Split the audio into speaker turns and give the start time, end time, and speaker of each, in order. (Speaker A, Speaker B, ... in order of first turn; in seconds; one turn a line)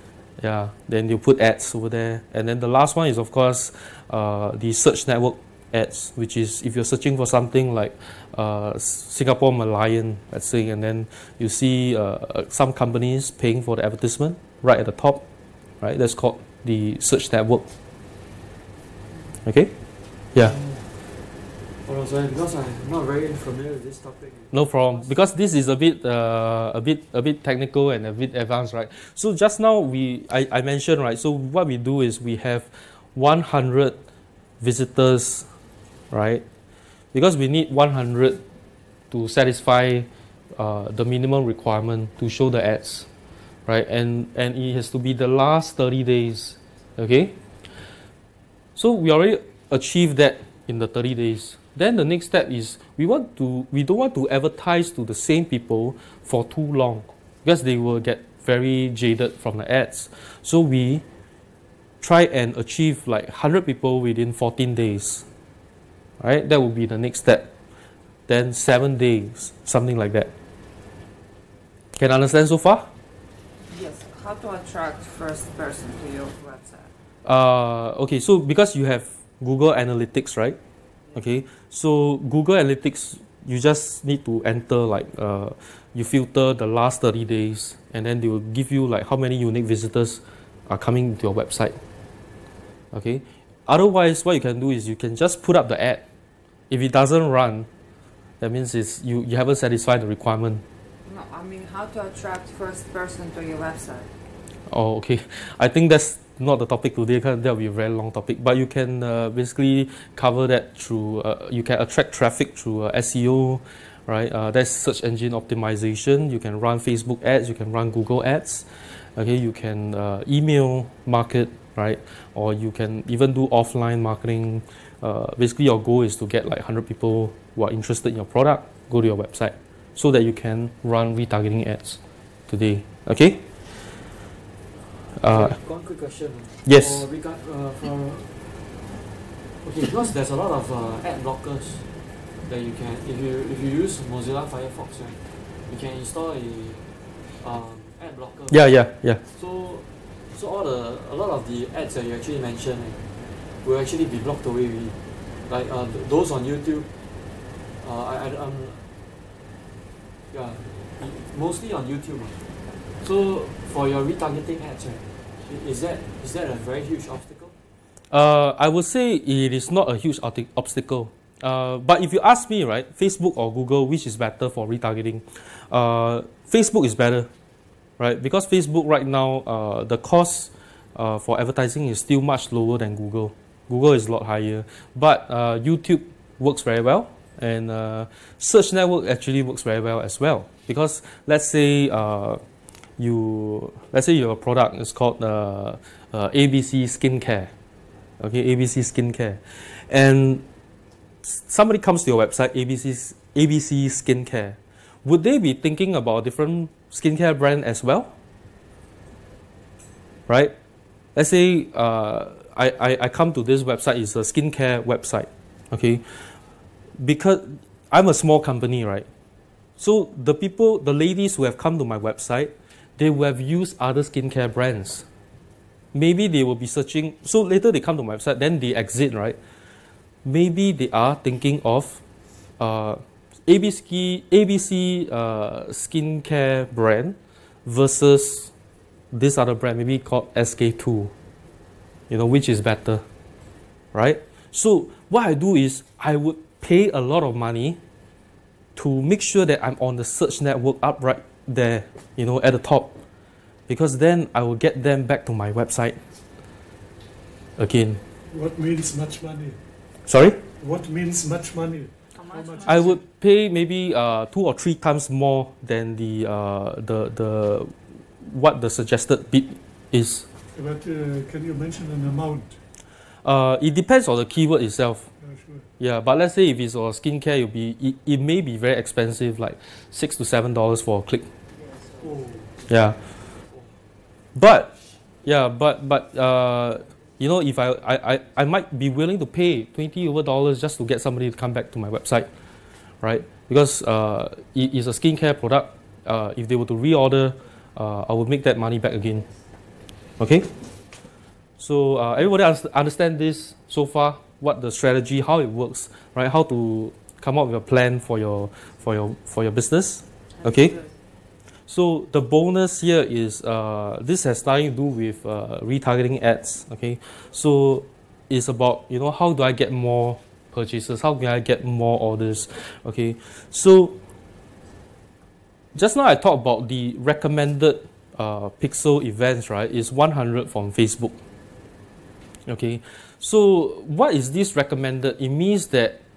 Speaker A: 0.4-15.2
Speaker A: 15.8-17.6
Speaker A: 19.4-19.7
Speaker B: 20.4-21.0
Speaker B: 21.8-25.2
Speaker A: 24.5-34.0
Speaker A: 34.6-35.5
Speaker A: 36.1-36.4
Speaker A: 37.1-38.4
Speaker A: 39.1-43.1
Speaker A: 43.7-47.3
Speaker A: 48.8-61.0
Speaker A: 62.0-65.2
Speaker A: 66.2-67.5
Speaker A: 68.3-70.3
Speaker A: 71.9-72.9
Speaker C: 73.7-76.9
Speaker A: 77.2-80.6
Speaker A: 81.1-91.8
Speaker A: 92.9-96.0
Speaker A: 96.7-97.7
Speaker A: 98.4-100.6
Speaker C: 101.0-104.1
Speaker A: 104.7-133.4
Speaker A: 135.2-135.6
Speaker B: 135.2-138.3
Speaker A: 136.6-137.0
Speaker B: 139.6-141.8
Speaker B: 142.4-146.8
Speaker B: 147.4-148.7
Speaker A: 148.5-149.2
Speaker B: 149.3-153.0
Speaker B: 153.6-154.9
Speaker B: 155.5-156.9
Speaker B: 157.8-158.8
Speaker B: 160.3-162.4
Speaker B: 163.0-167.5
Speaker A: 168.1-177.3
Speaker A: 178.0-192.4
Speaker A: 193.0-197.5
Speaker A: 198.2-200.4
Speaker A: 201.2-208.1
Speaker A: 210.3-210.5
Speaker A: 211.1-216.0
Speaker A: 217.0-219.1
Speaker A: 219.8-225.0
Speaker A: 225.9-229.3
Speaker A: 230.2-232.0
Speaker A: 232.6-238.5
Speaker A: 239.1-241.1
Speaker A: 242.1-243.0
Speaker A: 243.9-247.8
Speaker A: 248.8-252.9
Speaker A: 253.7-256.0
Speaker A: 257.6-258.0
Speaker D: 258.3-259.6
Speaker A: 260.1-260.4
Speaker D: 260.6-263.0
Speaker C: 262.1-263.0
Speaker A: 262.6-270.3
Speaker D: 270.5-272.6
Speaker A: 273.2-275.1
Speaker D: 275.2-275.7
Speaker A: 275.8-281.3
Speaker D: 282.0-282.5
Speaker A: 282.7-283.0
Speaker A: 284.3-284.7
Speaker A: 285.2-292.3
Speaker A: 293.0-299.2
Speaker A: 300.2-300.5
Speaker A: 301.6-310.8
Speaker C: 310.4-310.9
Speaker A: 311.7-323.9
Speaker A: 325.7-331.1
Speaker A: 332.5-336.0